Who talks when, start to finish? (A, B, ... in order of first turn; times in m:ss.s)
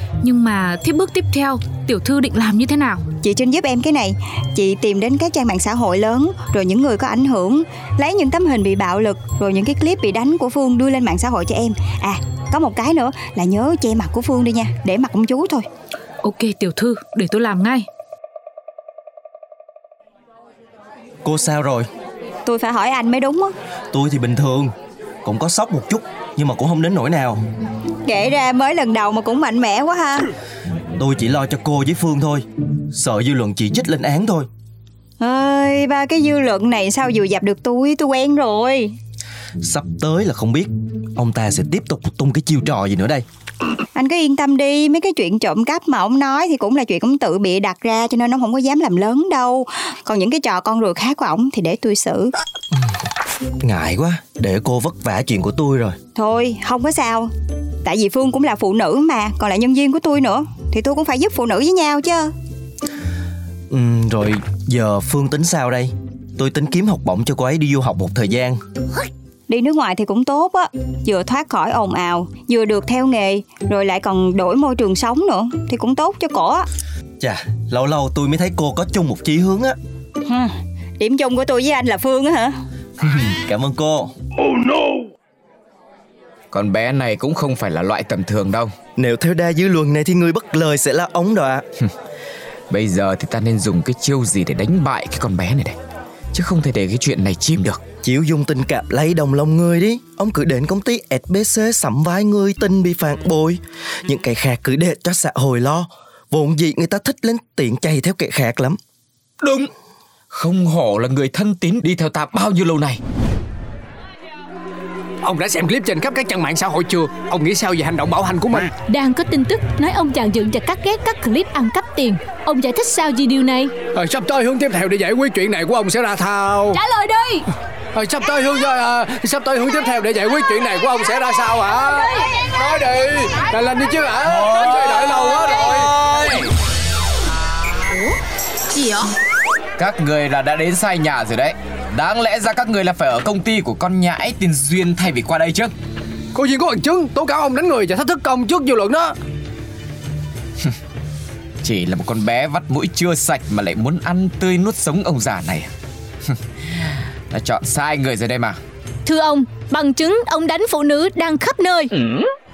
0:00.2-0:03.0 A
0:03.2-0:15.7 B
0:16.2-0:17.9 A
0:21.2-0:21.9 C
0:22.4-0:23.5 B
0:23.9-0:24.7 C
0:25.2-0:27.4 C
0:28.1-0:30.3 B
0:31.0-0:34.5 C
0:35.2-0:38.9 B
0:39.6-0:43.2 C
0:44.0-0:52.3 B
0:53.6-0:56.0 C
0:56.2-0:57.3 B
0:57.8-1:02.3 B
1:03.7-1:08.6 C
1:09.5-1:16.6 B
1:17.2-1:19.8 C
1:20.3-1:22.6 B
1:23.0-1:24.1 C
1:26.5-1:28.7 D
1:29.0-1:31.6 C
1:32.7-1:35.8 D
1:36.3-1:37.8 D
1:38.0-1:48.8 C
1:49.4-1:49.7 D
1:50.3-1:53.0 D
1:55.2-1:58.7 E
1:58.9-2:03.8 F
2:03.9-2:06.8 E
2:06.8-2:07.5 F
2:07.9-2:16.3 E
2:19.8-2:25.7 D
2:26.3-2:29.2 E
2:31.6-2:35.7 D
2:37.3-2:38.6 D
2:39.0-2:41.9 F